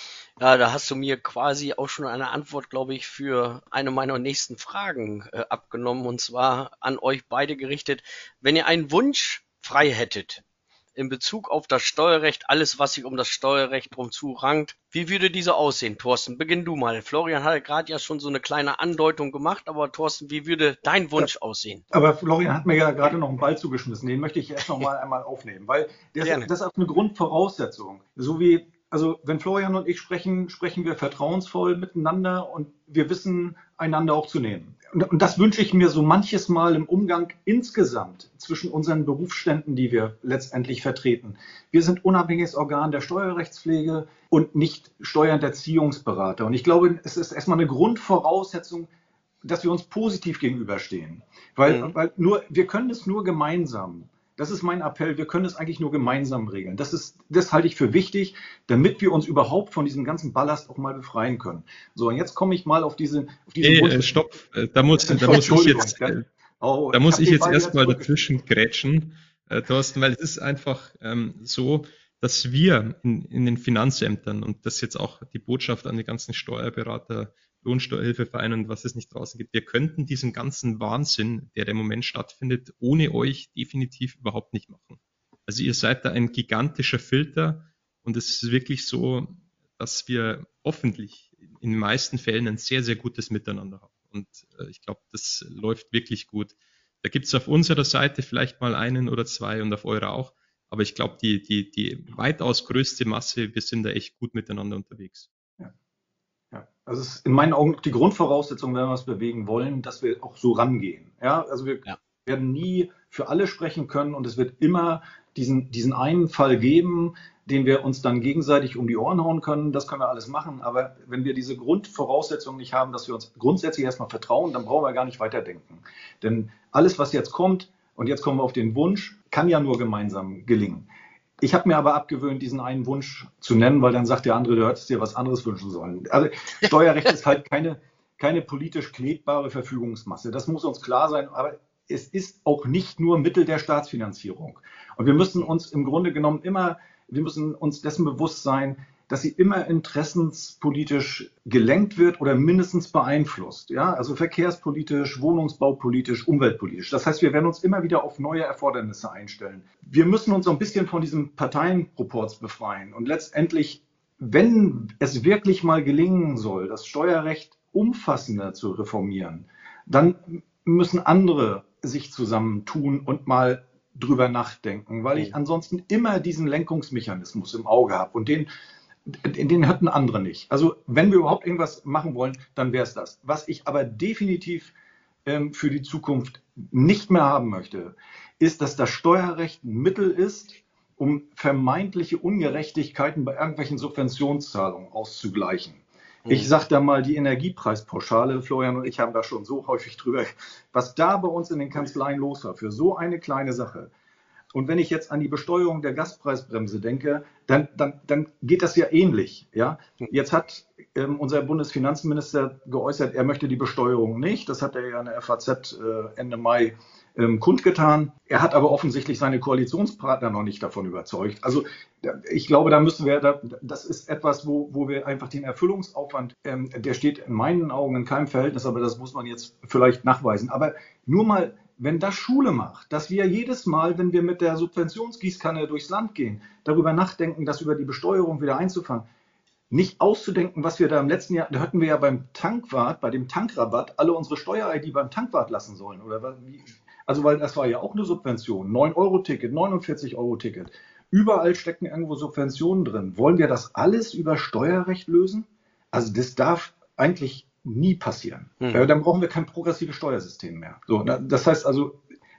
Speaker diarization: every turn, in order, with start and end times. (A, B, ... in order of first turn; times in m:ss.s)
0:00.4-0:10.4 A
0:11.0-0:21.8 A
0:21.9-0:48.9 B
0:26.2-0:26.5 A
0:49.4-1:04.1 B
0:51.6-0:51.9 A
1:03.6-1:06.2 C
1:05.0-1:08.1 B
1:06.9-1:45.3 C
1:46.5-2:10.9 B
2:11.4-2:58.5 B
2:59.1-3:04.7 B
3:05.3-3:23.9 B
3:24.5-3:59.1 B
3:59.7-4:22.0 B
4:18.6-4:18.9 A